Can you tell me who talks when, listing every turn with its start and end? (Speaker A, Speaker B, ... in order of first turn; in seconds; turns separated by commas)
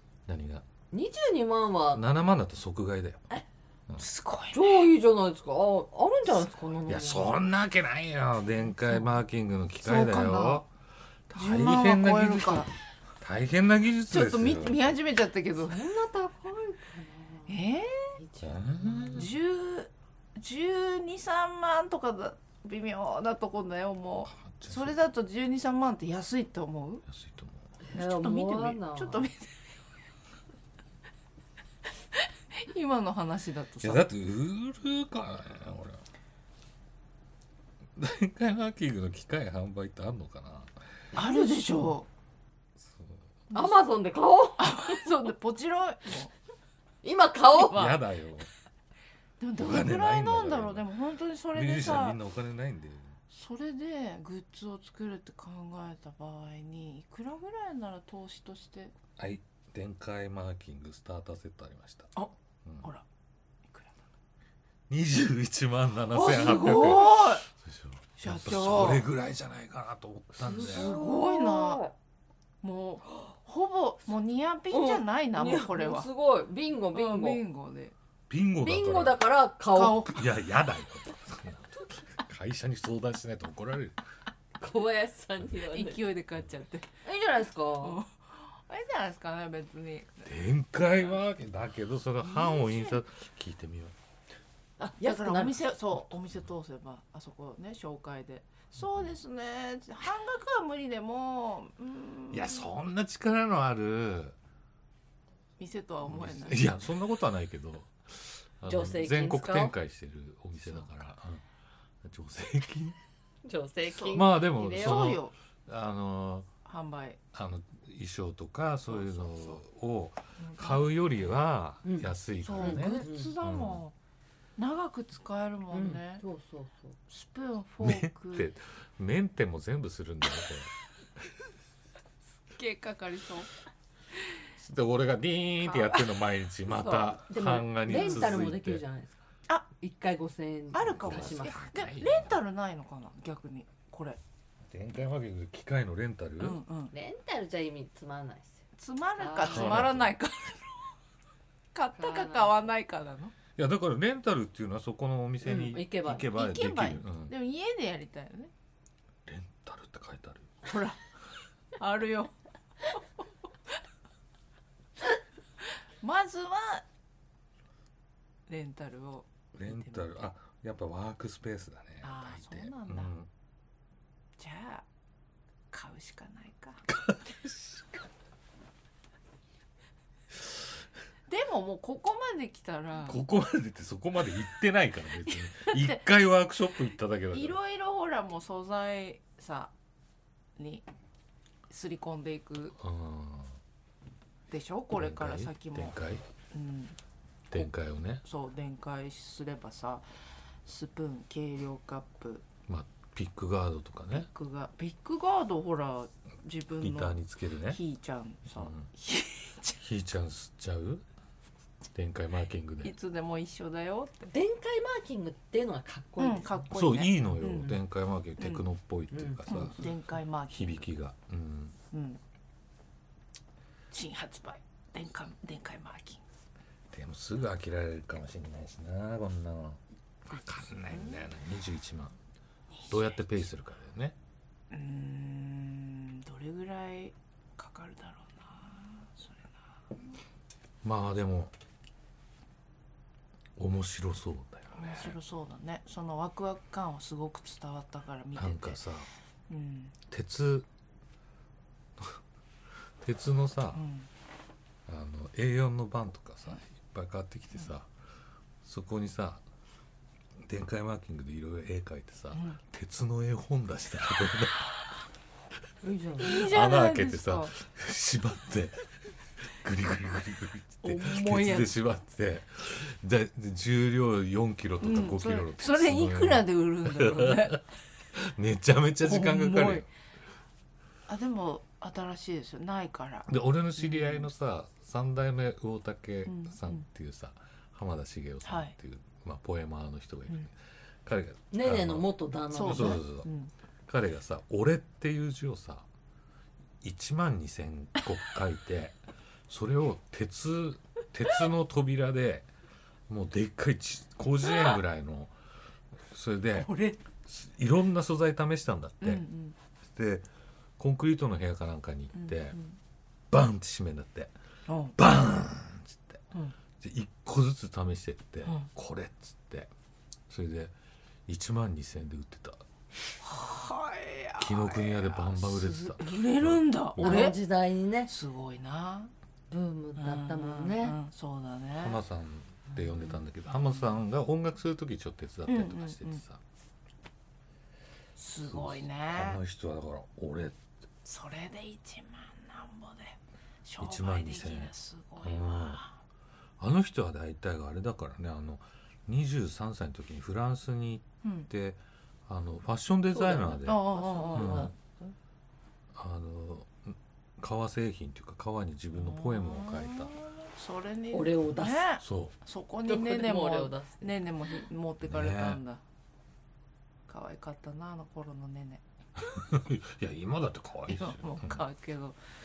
Speaker A: 0.3-0.7, Speaker B: 0.9-2.0, Speaker A: 1.9-3.2, Speaker C: 4.0-4.8, Speaker B: 4.5-7.3, Speaker A: 6.9-10.7, Speaker C: 9.8-10.6, Speaker A: 11.3-12.7, Speaker C: 11.3-12.7, Speaker A: 13.2-14.9, Speaker C: 14.1-15.8, Speaker B: 15.6-17.6, Speaker C: 17.5-18.2, Speaker B: 18.2-19.3, Speaker A: 18.4-19.3, Speaker C: 19.1-27.0, Speaker A: 24.2-25.0, Speaker A: 27.1-27.7, Speaker B: 27.9-29.3, Speaker C: 27.9-29.5, Speaker C: 32.2-34.1, Speaker A: 33.8-36.0, Speaker A: 38.0-40.8, Speaker C: 41.1-42.1, Speaker A: 42.9-43.2, Speaker B: 43.5-45.1, Speaker C: 44.6-46.3, Speaker B: 47.0-48.0, Speaker A: 47.6-48.5, Speaker C: 49.4-52.2, Speaker A: 49.6-50.9, Speaker A: 51.5-53.2, Speaker C: 53.3-58.9, Speaker A: 59.2-62.1, Speaker C: 63.7-64.0, Speaker A: 64.9-71.0, Speaker C: 66.1-67.4, Speaker C: 68.2-69.1, Speaker B: 70.4-71.9, Speaker C: 70.5-71.8, Speaker C: 72.6-76.1, Speaker B: 74.7-77.4, Speaker C: 76.9-77.9, Speaker A: 78.3-79.3, Speaker B: 78.6-80.1, Speaker C: 79.7-80.2, Speaker A: 80.0-84.0, Speaker B: 84.6-86.0, Speaker C: 85.6-86.9, Speaker B: 87.0-88.0, Speaker C: 87.8-90.3, Speaker A: 90.2-93.9, Speaker C: 92.2-93.0, Speaker B: 94.8-95.6, Speaker C: 95.0-102.7, Speaker A: 102.3-104.4, Speaker C: 105.6-106.7, Speaker A: 106.1-111.4, Speaker B: 108.7-109.8, Speaker A: 112.0-113.0, Speaker B: 113.4-115.2, Speaker C: 113.9-115.3, Speaker A: 114.1-116.5, Speaker C: 116.7-117.2, Speaker A: 117.3-123.8, Speaker C: 118.9-119.6, Speaker C: 120.4-120.9, Speaker B: 121.8-123.3, Speaker C: 122.4-123.9, Speaker C: 124.6-126.2, Speaker B: 125.7-127.0, Speaker C: 127.1-128.5, Speaker A: 127.8-130.7, Speaker C: 132.5-133.5, Speaker A: 134.6-138.8, Speaker C: 135.6-136.2, Speaker B: 136.8-139.2, Speaker C: 137.9-138.3, Speaker B: 139.8-141.6, Speaker C: 140.7-144.2, Speaker A: 141.0-142.3, Speaker A: 144.7-146.6, Speaker C: 146.4-146.9, Speaker B: 146.9-148.6, Speaker C: 148.8-150.9, Speaker B: 149.2-149.9, Speaker A: 149.5-150.1, Speaker C: 151.7-153.3, Speaker B: 152.0-152.6, Speaker A: 153.6-157.3, Speaker B: 155.4-156.3, Speaker C: 156.2-158.5, Speaker A: 159.3-160.6, Speaker C: 160.7-161.0, Speaker C: 161.8-163.0, Speaker C: 166.0-166.8, Speaker C: 168.5-170.1, Speaker A: 169.6-173.3, Speaker C: 172.0-173.1, Speaker C: 174.4-174.8, Speaker C: 175.7-176.8, Speaker A: 176.9-177.8, Speaker C: 181.3-183.2, Speaker A: 183.1-187.6, Speaker C: 185.7-186.0, Speaker C: 187.3-189.7, Speaker C: 190.6-190.8, Speaker C: 191.7-192.8, Speaker A: 192.8-193.6, Speaker C: 194.5-196.0, Speaker A: 194.9-196.2, Speaker C: 196.5-197.0, Speaker A: 197.5-198.2, Speaker C: 198.2-200.1, Speaker C: 200.7-202.4, Speaker A: 202.7-204.3, Speaker C: 204.1-209.8, Speaker A: 206.8-207.8, Speaker A: 208.6-208.9, Speaker A: 209.8-211.1, Speaker A: 211.9-212.9, Speaker C: 212.8-214.3, Speaker B: 214.3-216.7, Speaker C: 216.2-217.8, Speaker A: 216.7-219.9, Speaker C: 218.4-218.7, Speaker B: 219.1-219.7, Speaker C: 219.5-220.8, Speaker A: 220.5-221.8, Speaker C: 221.9-222.2, Speaker C: 223.9-226.2, Speaker A: 226.9-232.2, Speaker C: 230.9-231.2, Speaker C: 232.7-233.2, Speaker A: 232.9-234.2, Speaker C: 234.7-239.6, Speaker A: 240.8-241.5, Speaker A: 243.6-245.2, Speaker C: 244.8-248.8, Speaker A: 248.4-249.1, Speaker C: 249.5-249.9, Speaker A: 250.1-250.7, Speaker A: 253.0-253.8, Speaker C: 253.8-254.1, Speaker A: 254.9-257.9, Speaker A: 258.6-259.4, Speaker A: 260.4-264.8, Speaker B: 265.8-266.5, Speaker C: 266.2-267.5, Speaker A: 266.3-268.9, Speaker A: 269.5-277.6, Speaker C: 270.8-271.7, Speaker C: 274.8-277.6, Speaker A: 278.1-279.9, Speaker C: 279.0-279.9, Speaker C: 281.1-284.3, Speaker A: 283.3-293.3, Speaker C: 286.3-286.8, Speaker C: 288.4-288.7, Speaker B: 291.5-293.0, Speaker C: 292.5-293.5, Speaker A: 293.9-295.9, Speaker A: 296.8-299.0, Speaker A: 299.5-302.5, Speaker A: 303.1-305.3, Speaker A: 306.1-306.7, Speaker C: 306.6-307.0, Speaker A: 307.3-309.2, Speaker C: 309.0-309.6, Speaker A: 309.9-310.3, Speaker A: 310.8-312.6, Speaker C: 312.1-312.8, Speaker A: 313.3-314.3, Speaker C: 314.7-315.0, Speaker A: 315.0-316.2, Speaker A: 316.8-319.7, Speaker A: 320.3-320.7, Speaker A: 321.3-322.6, Speaker C: 323.2-327.4, Speaker A: 324.4-327.3, Speaker B: 327.0-328.1, Speaker C: 328.1-329.1, Speaker B: 329.5-331.0, Speaker C: 330.0-332.0, Speaker A: 331.8-336.4, Speaker C: 333.6-333.9, Speaker C: 335.5-336.2, Speaker C: 338.2-339.4, Speaker A: 338.5-340.6, Speaker C: 341.1-345.9, Speaker A: 343.8-345.8, Speaker A: 346.6-354.7, Speaker C: 351.2-351.5, Speaker B: 353.1-355.1, Speaker C: 353.6-354.7, Speaker A: 355.9-360.2, Speaker C: 358.9-365.8, Speaker B: 361.1-361.9, Speaker A: 362.0-362.4, Speaker B: 362.9-364.1, Speaker A: 365.0-365.6, Speaker C: 367.1-368.8, Speaker A: 369.2-371.6, Speaker C: 370.9-372.2